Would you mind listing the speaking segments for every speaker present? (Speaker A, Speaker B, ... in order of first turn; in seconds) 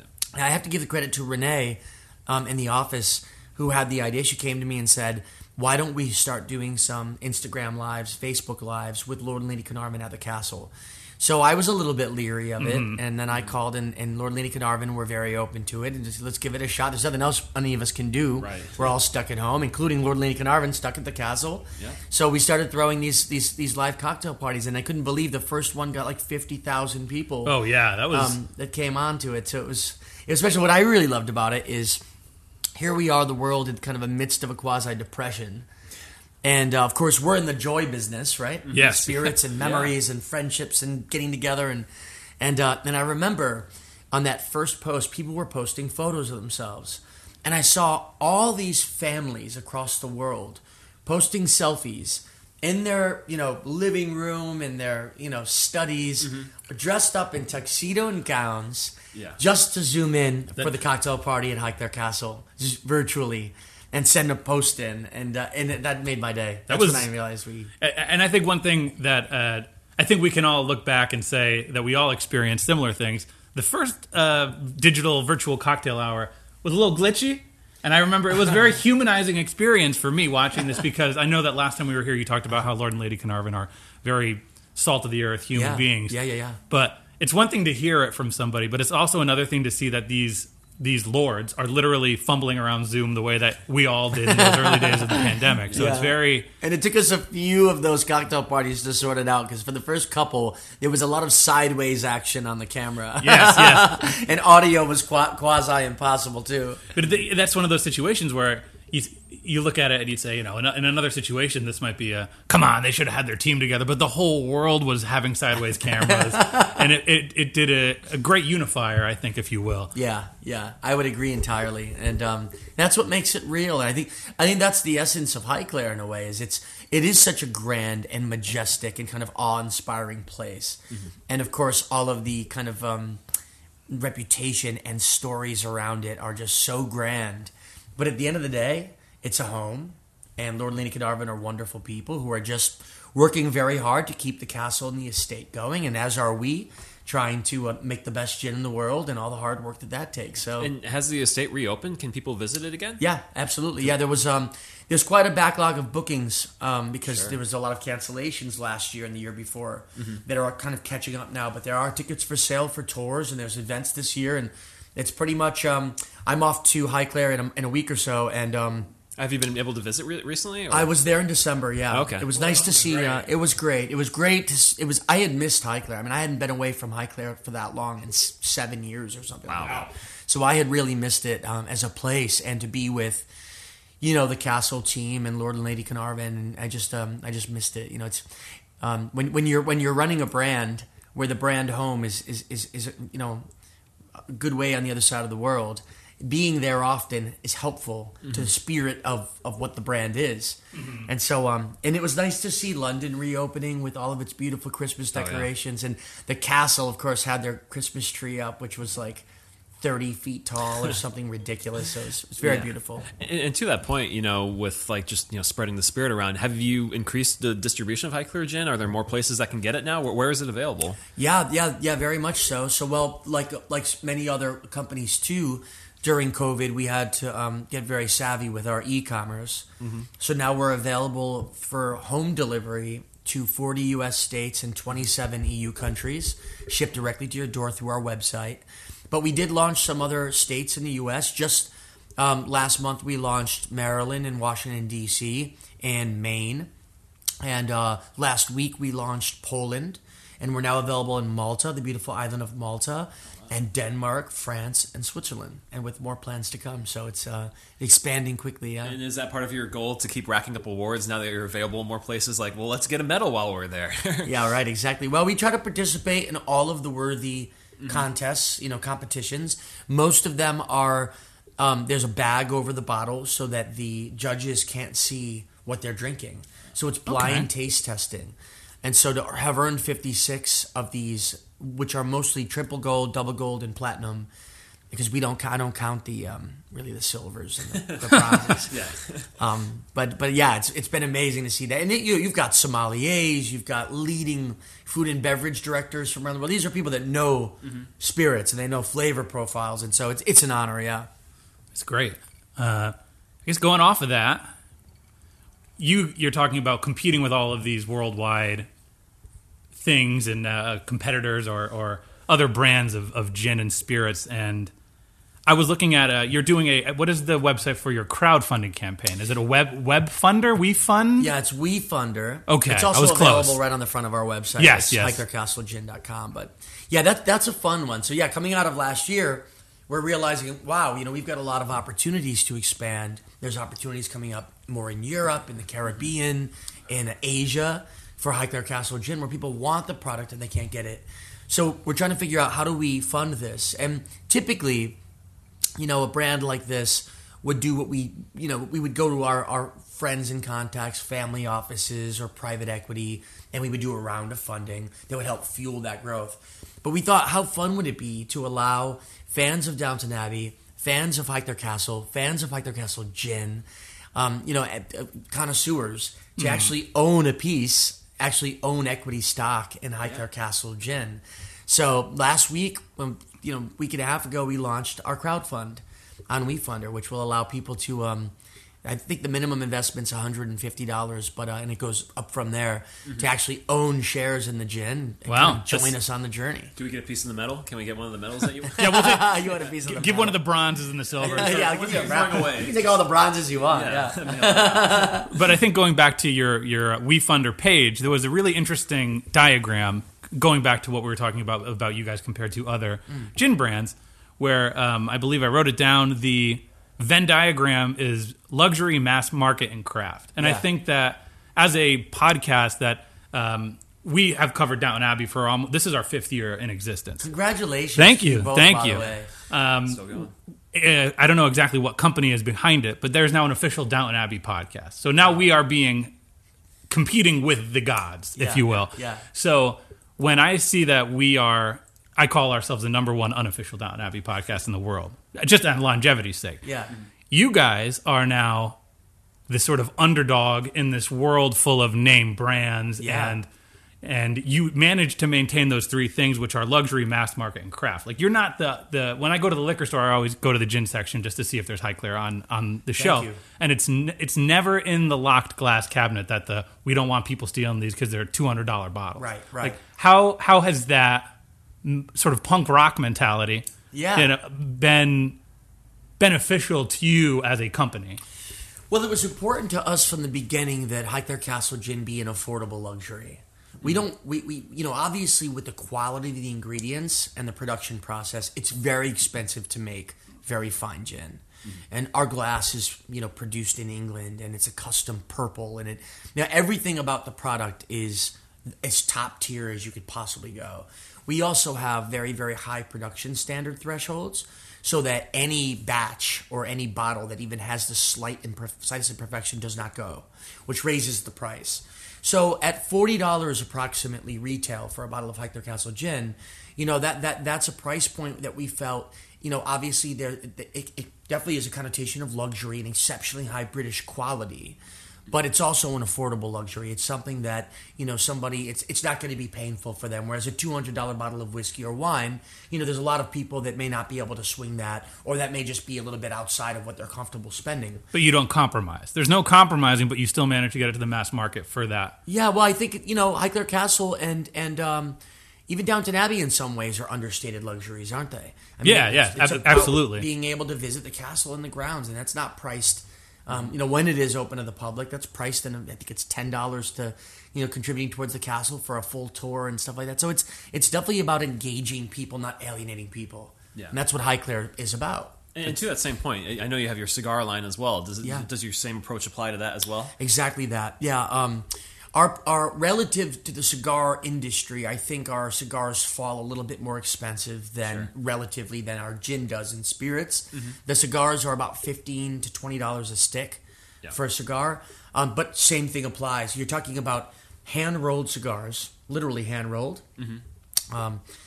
Speaker A: 0.3-27.6, 28.1-32.0, 32.8-35.7, 36.4-41.9, 42.4-67.7, 85.5-86.6, 94.2-106.8, 115.9-116.9, 119.9-133.2, 133.9-150.7, 153.0-168.9, 170.7-183.3, 184.0-188.2, 188.8-193.4, 194.1-209.3, 209.8-213.1, 221.2-229.7, 230.2-246.7, 247.4-259.0, 264.2-284.3, 284.9-301.1, 321.2-345.0, 345.8-386.7, 388.8-390.4, 391.2-395.3, 410.4-410.6, 417.2-419.3, 428.4-429.2, 436.6-436.9, 443.0-443.4, 452.9-453.4, 459.1-459.8, 463.9-464.3, 468.9-528.0, 532.3-555.8, 558.2-558.5, 560.2-580.0, 580.9-581.2
Speaker B: 12.6-13.0, 27.4-28.4, 38.7-39.4, 66.7-67.1, 67.8-86.2, 86.7-96.5, 103.2-104.0, 106.9-119.9, 200.8-201.1, 277.1-277.5, 301.7-304.5, 305.8-308.7, 309.8-314.7, 315.4-321.3, 322.5-323.6, 324.6-325.2, 366.4-366.7, 385.3-385.9, 388.8-391.7, 395.2-417.3, 417.9-420.0, 420.7-426.1, 426.9-436.6, 437.3-438.8, 439.5-443.5, 444.0-465.4, 466.2-468.2, 528.1-532.2, 538.8-540.3
Speaker C: 18.4-18.9, 38.7-39.0, 39.5-40.0, 56.2-56.5, 59.1-59.4, 150.6-153.0, 169.2-170.9, 171.9-173.2, 179.5-179.9, 198.2-198.5, 205.1-205.5, 212.4-221.0, 229.8-230.1, 258.8-264.4, 267.8-268.1, 287.9-289.3, 386.8-389.0, 391.2-392.9, 393.7-395.1, 419.9-420.3, 555.5-560.1